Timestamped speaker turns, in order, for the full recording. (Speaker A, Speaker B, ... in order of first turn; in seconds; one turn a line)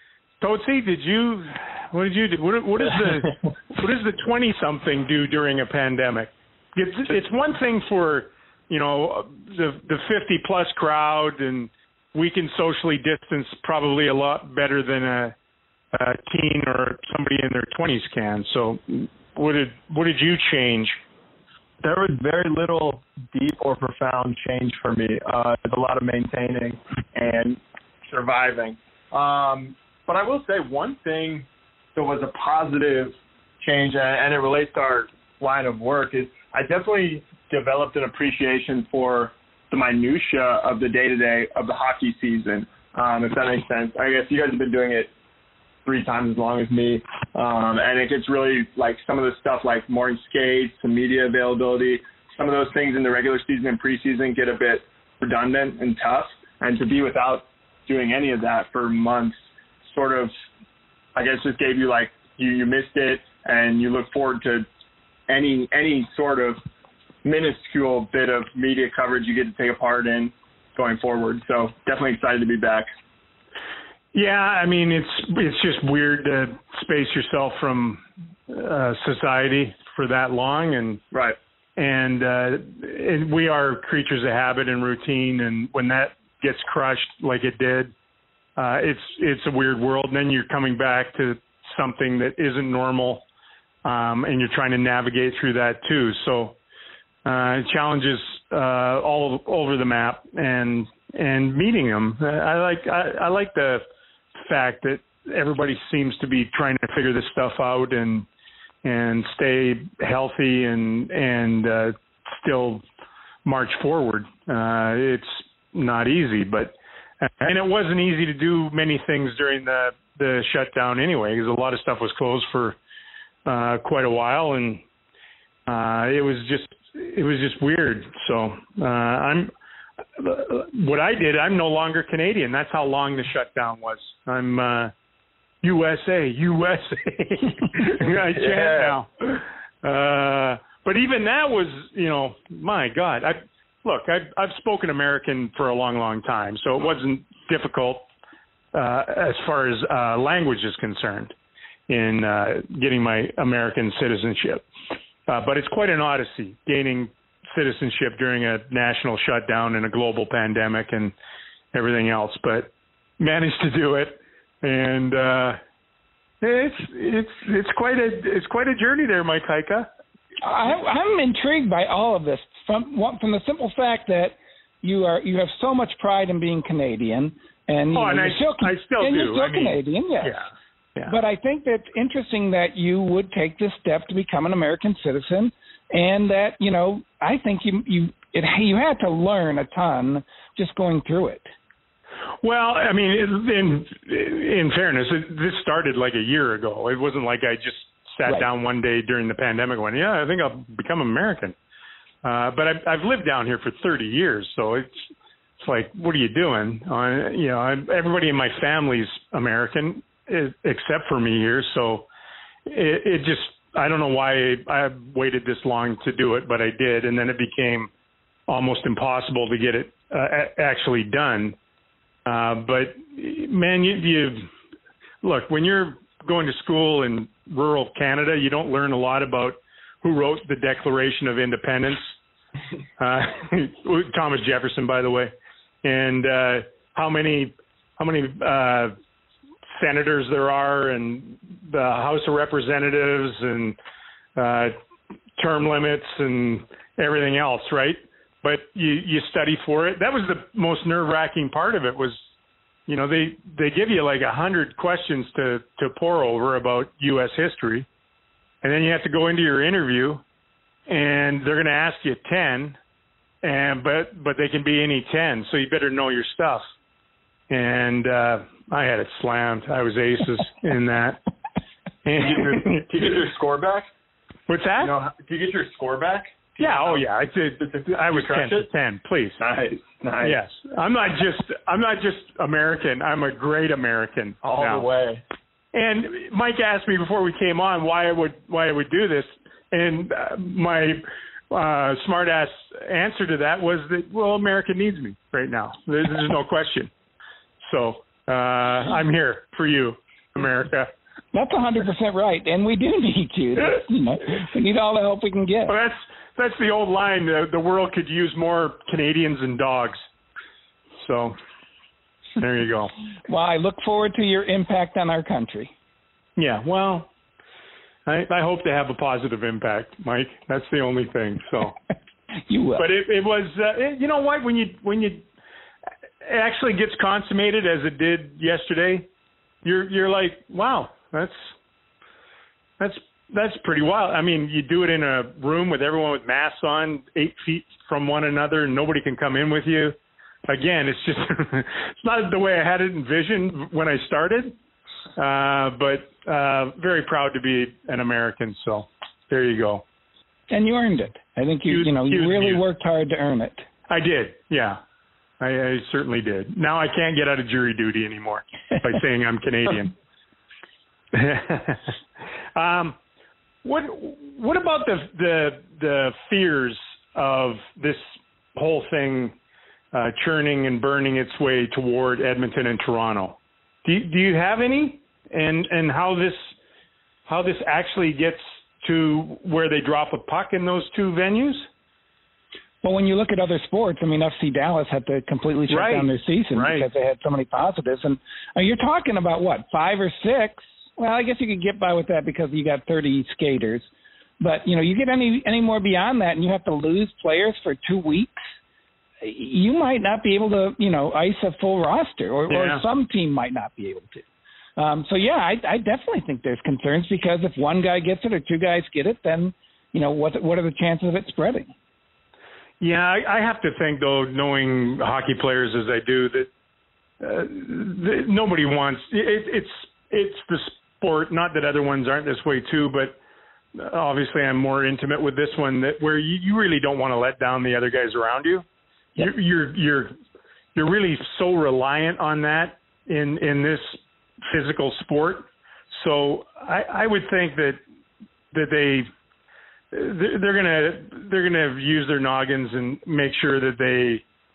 Speaker A: 0.4-15.3
Speaker A: 15.9-21.0
Speaker B: 21.8-45.1
Speaker B: 45.8-60.3
Speaker B: 61.1-64.7
Speaker B: 65.3-66.6
Speaker B: 67.2-72.9
Speaker A: 74.1-81.0
Speaker A: 81.8-87.9
Speaker A: 88.6-93.2
Speaker A: 93.8-96.5
Speaker A: 97.2-103.8
Speaker A: 104.4-108.2
Speaker A: 108.8-112.8
Speaker A: 113.4-122.8
Speaker A: 123.5-124.8
Speaker A: 125.7-129.5
Speaker A: 130.2-134.9
Speaker A: 135.6-148.0
Speaker B: 138.3-138.9
Speaker A: 148.7-151.3
Speaker A: 151.9-154.7
Speaker A: 155.3-161.1
Speaker A: 161.7-165.6
Speaker A: 166.4-169.9
Speaker C: 170.4-180.4
Speaker A: 177.9-180.4
Speaker C: 181.1-191.4
Speaker A: 192.4-201.5
Speaker A: 202.2-205.0
Speaker A: 205.6-212.1
Speaker A: 212.7-217.9
Speaker A: 218.5-221.6
Speaker A: 222.2-224.5
Speaker A: 225.2-232.0
Speaker A: 233.0-235.3
Speaker A: 235.8-238.9
Speaker A: 239.8-243.8
Speaker A: 244.3-244.7
Speaker A: 245.4-252.2
Speaker A: 252.9-257.9
Speaker A: 258.6-260.2
Speaker A: 260.9-262.8
Speaker A: 263.4-266.6
Speaker A: 267.5-271.2
Speaker A: 272.0-273.0
Speaker B: 272.1-273.9
Speaker A: 274.5-274.9
Speaker B: 274.8-277.0
Speaker A: 276.6-279.4
Speaker B: 277.6-278.6
Speaker B: 279.4-280.4
Speaker A: 280.2-284.9
Speaker B: 284.4-285.2
Speaker A: 285.7-296.9
Speaker A: 297.6-300.9
Speaker C: 301.3-305.7
Speaker A: 305.7-310.0
Speaker A: 311.0-311.3
Speaker A: 312.4-312.9
Speaker C: 313.3-315.7
Speaker A: 316.4-317.1
Speaker A: 318.1-321.8
Speaker C: 322.5-322.8
Speaker A: 322.8-325.2
Speaker A: 326.2-329.1
Speaker A: 329.6-331.5
Speaker A: 332.8-339.9
Speaker A: 340.5-344.5
Speaker A: 345.1-349.8
Speaker C: 350.5-353.6
Speaker A: 351.7-352.6
Speaker A: 353.9-354.8
Speaker A: 355.4-359.9
Speaker A: 361.1-361.9
Speaker A: 362.5-363.0
Speaker A: 363.6-368.0
Speaker A: 368.5-369.4
Speaker A: 369.9-376.5
Speaker A: 377.3-381.7
Speaker C: 382.8-393.9
Speaker A: 385.7-386.9
Speaker C: 394.4-398.4
Speaker C: 399.2-404.2
Speaker A: 402.5-402.8
Speaker C: 404.8-411.7
Speaker A: 412.8-416.5
Speaker A: 417.2-423.2
Speaker A: 423.7-428.6
Speaker A: 429.2-430.1
Speaker A: 430.7-437.8
Speaker A: 438.5-439.1
Speaker A: 439.9-444.2